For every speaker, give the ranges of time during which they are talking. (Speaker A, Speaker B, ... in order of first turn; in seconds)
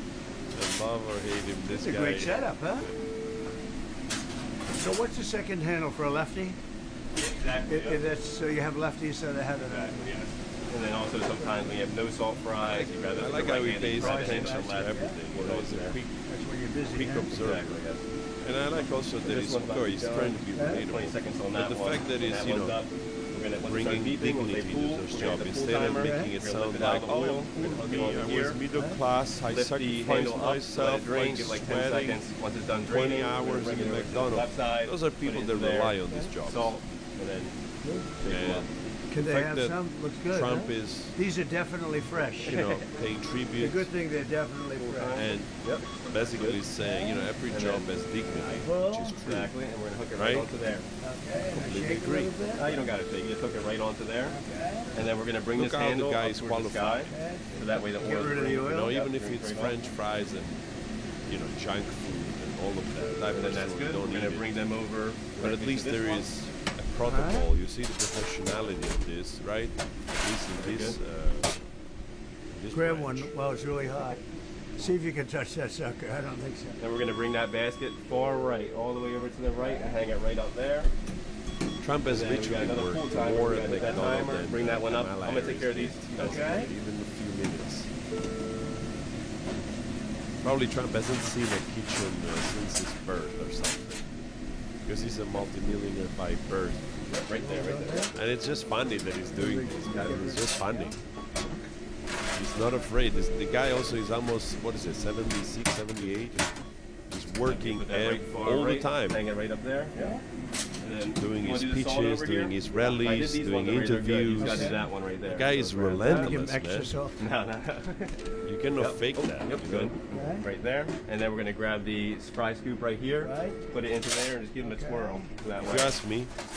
Speaker A: 0.5-2.9, 12.6-16.2, 16.9-17.8, 18.4-22.8, 23.6-32.2, 32.9-36.7, 38.3-41.2, 42.5-43.9, 45.1-49.5, 50.2-50.5, 51.5-52.4, 55.5-57.2, 58.5-60.6, 61.3-64.6, 65.3-71.7, 72.5-73.3, 81.8-87.9, 90.4-94.2, 94.8-96.9, 98.1-101.0, 102.3-106.5, 107.1-109.2, 111.2-117.0, 118.5-120.0, 125.6-126.3
Speaker B: 1.7-2.9, 4.7-6.6, 7.7-10.2, 13.9-15.2, 16.3-17.3, 20.6-20.8, 25.8-26.4, 28.7-29.0, 37.8-38.1, 39.1-42.6, 43.6-45.2, 46.8-47.3, 48.6-49.2, 51.0-52.9, 54.2-54.9, 57.1-58.9, 67.0-67.5, 72.7-74.2, 74.8-76.8, 86.2-86.7, 97.3-98.2, 99.3-101.0, 110.0-110.2, 114.3-114.8, 116.0-117.2, 120.1-120.5, 123.2-123.6, 124.6-125.3
Speaker C: 7.2-8.1, 9.6-16.0, 17.3-18.1, 19.2-28.6, 29.5-37.6, 38.2-38.7, 44.8-46.6, 47.5-48.7, 49.2-50.9, 52.5-54.4, 54.9-59.9, 63.3-66.3, 70.6-71.0, 76.8-80.9, 82.0-86.7, 97.1-98.1, 99.9-100.3, 107.4-110.2, 110.8-116.4, 117.2-126.0